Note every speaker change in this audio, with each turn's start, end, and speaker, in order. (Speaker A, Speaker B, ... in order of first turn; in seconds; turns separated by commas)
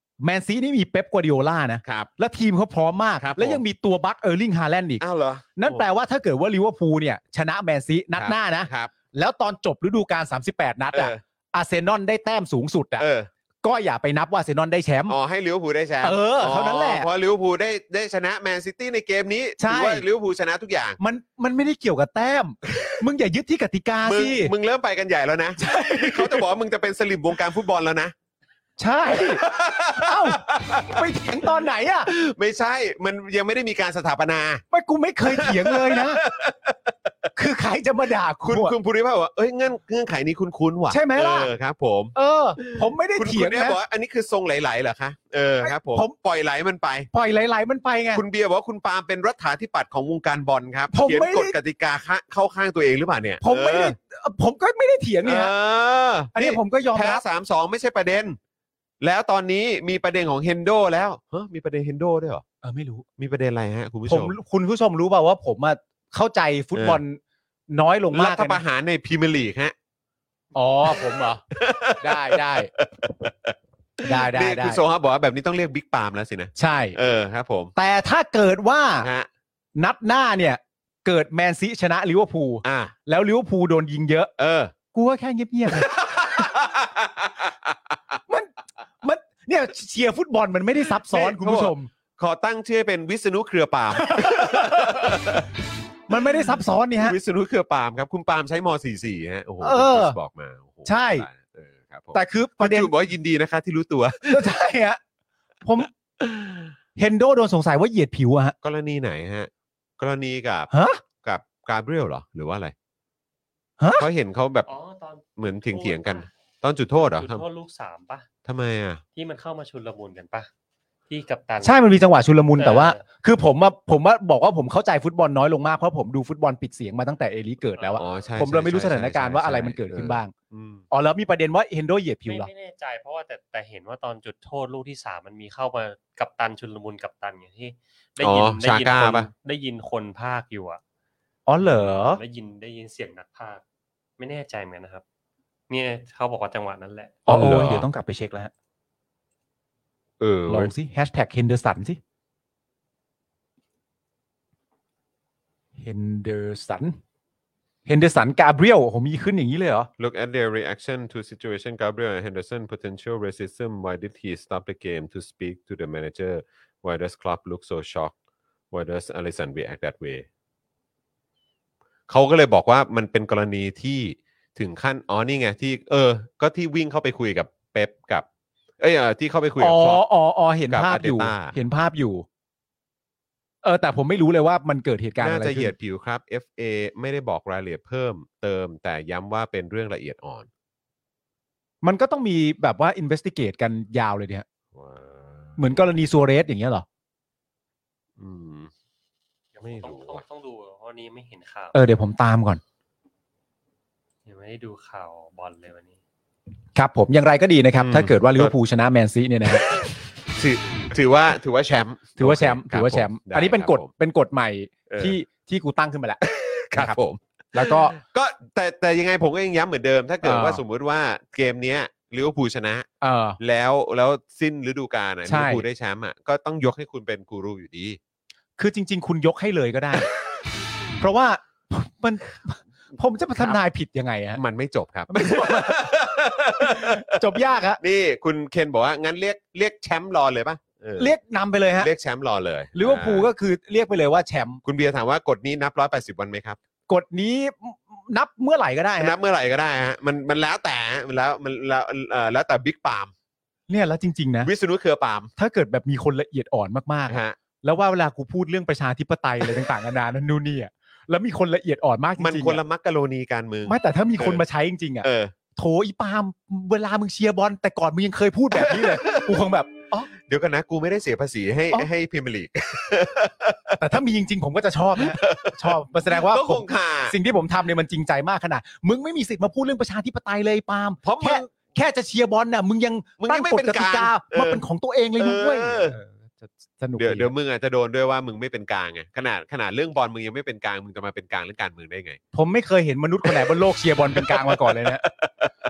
Speaker A: 0.2-5.0, Speaker B: 1.8-2.1, Speaker B: 3.2-3.6, Speaker B: 5.0-5.8, Speaker A: 5.6-13.1, Speaker B: 8.2-8.9, Speaker B: 10.9-11.2, Speaker B: 13.0-13.3, Speaker A: 13.6-15.2, Speaker B: 15.1-21.0, Speaker A: 16.0-17.1, Speaker A: 19.6-20.0, Speaker A: 21.0-24.5, Speaker B: 22.7-23.0, Speaker B: 24.0-28.1, Speaker A: 25.6-26.4, Speaker A: 28.8-32.1, Speaker B: 29.1-34.6, Speaker A: 34.7-36.2, Speaker B: 35.2-37.1, Speaker A: 37.4-38.7, Speaker B: 38.4-47.1, Speaker A: 40.9-41.5, Speaker A: 42.1-43.8, Speaker A: 45.6-46.1, Speaker A: 47.1-48.2, Speaker B: 48.1-54.0, Speaker A: 50.9-51.5, Speaker A: 53.4-55.5, Speaker B: 55.2-58.4, Speaker A: 56.3-57.2, Speaker B: 59.0-62.4, Speaker A: 62.6-63.0, Speaker B: 63.2-64.3, Speaker A: 64.1-68.6, Speaker B: 66.7-67.0, Speaker B: 68.1-69.7, Speaker A: 70.5-71.4, Speaker B: 71.5-77.7, Speaker A: 72.0-72.7, Speaker A: 74.0-74.8, Speaker A: 76.6-77.0, Speaker A: 77.8-79.1, Speaker B: 79.0-79.3, Speaker A: 79.8-84.3, Speaker B: 82.6-82.9, Speaker B: 84.4-84.7, Speaker A: 84.9-86.4, Speaker B: 85.7-88.1, Speaker A: 88.3-91.9, Speaker B: 91.0-95.5, Speaker A: 94.1-94.9, Speaker A: 96.1-97.2, Speaker B: 96.1-104.5, Speaker A: 99.6-100.2, Speaker A: 100.8-101.3, Speaker A: 102.1-102.9, Speaker A: 104.3-105.0, Speaker A: 105.6-105.9, Speaker B: 106.2-106.7, Speaker A: 107.0-108.5, Speaker B: 108.6-112.7, Speaker A: 110.7-111.0, Speaker A: 113.8-114.0, Speaker B: 114.0-114.7, Speaker C: 114.7-116.3, Speaker B: 115.4-117.4, Speaker C: 117.1-118.3, Speaker B: 118.4-119.0, Speaker C: 119.2-120.5, Speaker C: 121.1-121.8, Speaker A: 121.6-130.3, Speaker C: 122.6-123.0, Speaker C: 127.8-128.4, Speaker B: 128.0-130.8, Speaker A: 130.9-132.5, Speaker C: 132.2-140.8, Speaker B: 138.2-139.3, Speaker A: 141.5-142.2, Speaker C: 141.6-143.6, Speaker C: 144.2-145.0, Speaker C: 145.7-147.2, Speaker A: 147.3-148.5, Speaker B: 147.3-147.9, Speaker B: 150.2-150.7, Speaker A: 150.5-152.0, Speaker A: 155.8-157.0, Speaker A: 157.8-159.9, Speaker B: 160.0-168.1, Speaker B: 168.7-170.2, Speaker B: 172.1-178.2, Speaker B: 178.8-180.0, Speaker A: 179.6-182.2, Speaker B: 180.7-181.6, Speaker A: 183.6-185.7, Speaker B: 185.2-190.5, Speaker A: 191.8-194.4, Speaker B: 194.7-195.8, Speaker A: 195.6-196.8, Speaker B: 198.2-198.7, Speaker C: 199.5-201.8, Speaker B: 199.6-200.2, Speaker A: 201.7-202.6, Speaker C: 204.2-206.0, Speaker A: 206.8-209.7, Speaker B: 207.8-208.5, Speaker B: 209.4-213.9, Speaker A: 212.2-216.2, Speaker B: 214.9-215.2, Speaker B: 216.2-222.9, Speaker A: 217.5-217.9, Speaker A: 220.2-220.6, Speaker A: 223.0-223.4, Speaker B: 223.4-228.0, Speaker A: 225.2-225.6, Speaker A: 228.6-230.1, Speaker A: 231.0-234.4, Speaker B: 234.3-241.1, Speaker A: 235.1-235.9, Speaker A: 236.6-237.8, Speaker A: 241.0-241.9, Speaker B: 241.8-243.3, Speaker A: 242.7-244.6, Speaker B: 244.6-246.6, Speaker A: 246.9-249.2, Speaker B: 249.0-253.1, Speaker A: 253.7-254.5, Speaker B: 254.4-255.3, Speaker A: 255.4-262.6, Speaker B: 257.1-257.4, Speaker B: 262.2-264.4, Speaker A: 263.6-270.1, Speaker B: 265.0-265.3, Speaker B: 268.5-269.4, Speaker B: 270.1-273.9, Speaker A: 273.8-287.3, Speaker B: 274.9-277.1, Speaker B: 281.0-281.5, Speaker B: 283.2-284.6, Speaker B: 285.2-286.0, Speaker B: 286.9-292.2, Speaker A: 292.3-295.0, Speaker B: 293.2-293.6, Speaker B: 294.1-295.5